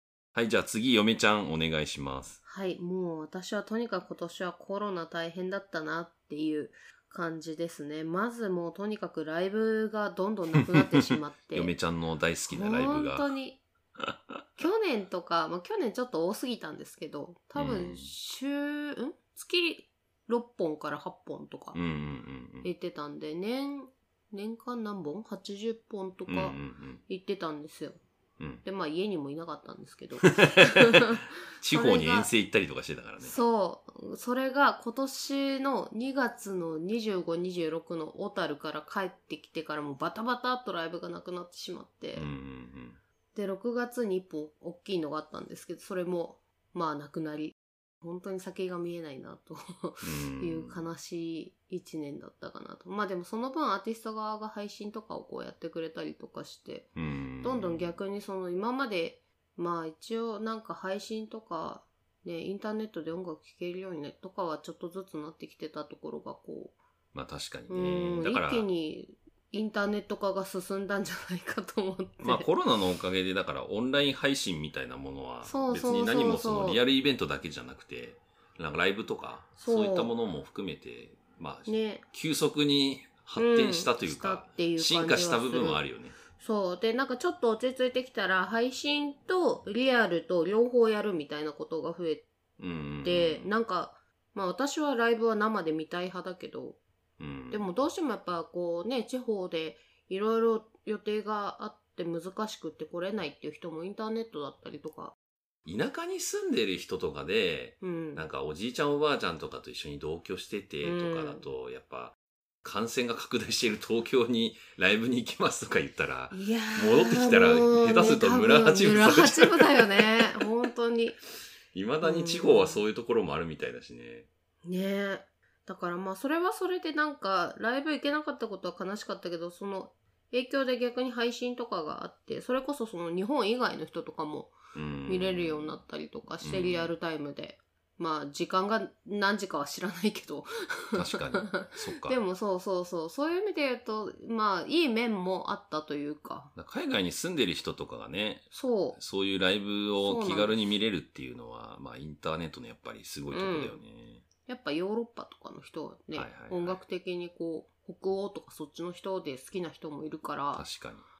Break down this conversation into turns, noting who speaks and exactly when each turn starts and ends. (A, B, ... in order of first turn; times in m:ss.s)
0:00.3-0:02.4 A
0:02.4-0:11.7 B
0:10.5-0:13.3 A
0:12.5-0:13.6 B
0:14.0-0:14.4 A
0:14.6-0:21.8 B
0:17.6-0:18.1 A
0:21.7-0:22.7 A
0:22.6-0:26.6 B
0:26.3-0:27.0 A
0:27.1-0:28.0 B
0:28.4-0:28.6 A
0:28.6-0:32.3 B
0:30.2-0:33.4 A
0:33.2-0:42.3 B
0:42.1-0:43.0 A
0:43.3-1:06.8 B
0:50.0-0:50.8 A
0:57.0-0:57.9 A
1:07.1-1:08.7 A
1:07.7-1:12.5 B
1:12.2-1:26.2 A
1:15.4-1:16.8 B
1:19.6-1:20.1 B
1:21.7-1:22.0 B
1:23.4-1:25.8 B
1:26.3-1:32.3 B
1:32.6-1:33.5 A
1:33.0-1:36.8 B
1:37.2-1:37.7 A
1:37.5-1:45.1 B
1:45.6-2:00.5 A
1:47.8-1:48.2 B
1:50.8-1:51.4 B
1:56.3-2:01.2 B
2:01.7-2:04.3 A
2:02.0-2:02.8 B
2:04.6-2:26.5 B
2:14.7-2:15.8 A
2:16.4-2:16.9 A
2:20.9-2:22.2 A
2:26.5-2:34.2 A
2:28.5-2:29.0 B
2:30.0-2:30.7 B
2:33.3-2:33.8 B
2:34.4-2:40.7 B
2:36.1-2:36.8 A
2:40.5-2:41.0 A